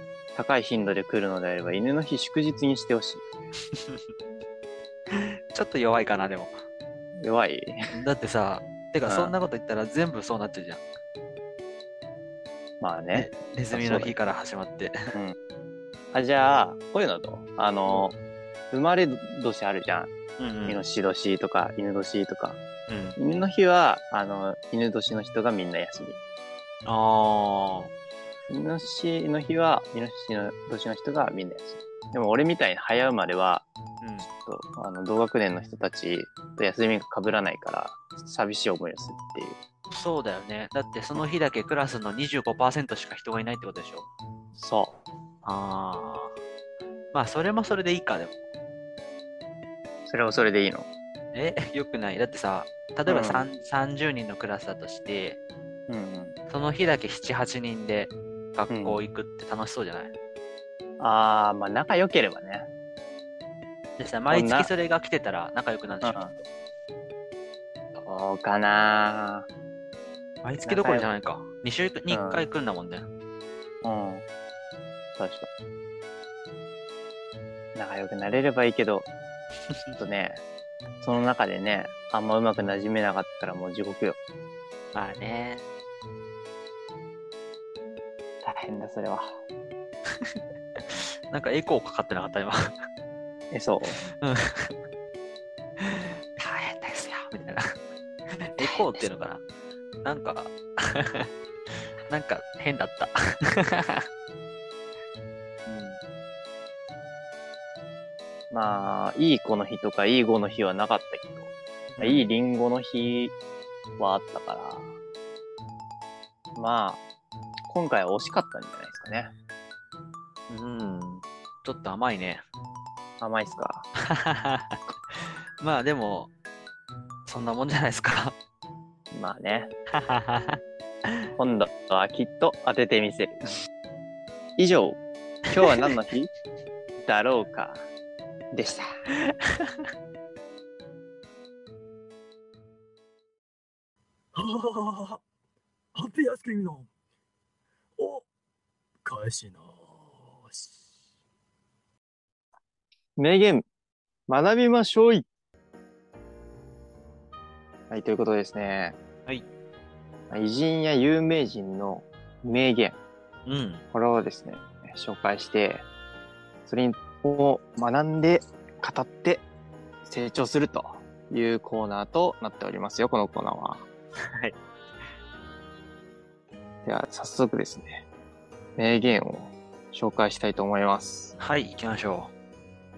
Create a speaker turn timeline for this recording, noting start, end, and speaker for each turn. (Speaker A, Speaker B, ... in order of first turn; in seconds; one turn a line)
Speaker A: 0.3-3.3
Speaker B: 3.7-4.0
Speaker B: 5.1-6.6
Speaker A: 7.2-7.8
Speaker B: 7.9-10.8
Speaker A: 9.1-9.3
Speaker A: 12.8-14.2
Speaker B: 13.1-15.0
Speaker A: 16.1-18.1
Speaker A: 18.7-20.1
Speaker B: 20.4-20.8
Speaker A: 20.7-22.6
Speaker B: 22.9-23.2
Speaker A: 23.2-26.2
Speaker B: 26.9-27.9
Speaker A: 28.5-33.7
Speaker B: 34.0-34.3
Speaker A: 34.4-39.6
Speaker B: 39.9-44.1
Speaker A: 44.5-45.0
Speaker B: 45.4-46.4
Speaker B: 47.1-48.4
Speaker A: 50.1-50.9
Speaker B: 51.3-55.4
Speaker A: 53.1-53.5
Speaker A: 55.9-56.4
Speaker B: 56.5-60.1
Speaker A: 58.7-59.0
Speaker A: 61.0-62.7
Speaker B: 64.0-66.4
Speaker A: 64.3-64.7
Speaker A: 66.0-66.3
Speaker A: 68.0-69.5
Speaker B: 70.4-73.1
Speaker A: 70.7-71.1
Speaker A: 72.1-72.4
Speaker A: 73.8-74.2
Speaker A: 75.2-75.5
Speaker A: 77.8-79.1
Speaker A: 80.0-80.4
Speaker A: 81.0-84.2
Speaker B: 84.9-85.7
Speaker A: 88.4-89.3
Speaker B: 90.9-92.8
Speaker A: 93.5-94.0
Speaker B: 94.2-94.7
Speaker B: 95.8-97.7
Speaker B: 98.4-99.4
Speaker A: 98.6-99.1
Speaker B: 100.0-101.3
Speaker B: 102.1-104.0
Speaker B: 105.7-106.0
Speaker A: 108.5-113.3
Speaker B: 111.9-112.3
Speaker A: 114.0-114.9
Speaker A: 116.6-117.0
Speaker A: 117.7-119.3
Speaker B: 120.5-122.4
Speaker A: 123.2-123.9
Speaker B: 124.1-126.3
Speaker B: 127.3-128.3
Speaker A: 129.1-129.7
Speaker B: 129.9-130.6
Speaker A: 131.4-133.4
Speaker A: 134.6-136.3
Speaker B: 135.6-135.9
Speaker A: 137.0-137.9
Speaker A: 138.5-138.9
Speaker B: 139.3-139.8
Speaker C: 144.3-145.2
Speaker C: 145.9-146.9
Speaker C: 148.0-148.2
Speaker C: 149.0-150.7
Speaker A: 153.2-153.7
Speaker A: 154.3-155.2
Speaker A: 157.9-159.0
Speaker A: 160.3-163.0
Speaker B: 163.5-163.8
Speaker A: 163.9-165.9
Speaker A: 166.7-169.4
Speaker A: 170.0-173.8
Speaker A: 176.8-178.0
Speaker A: 178.8-181.3
Speaker B: 181.4-182.3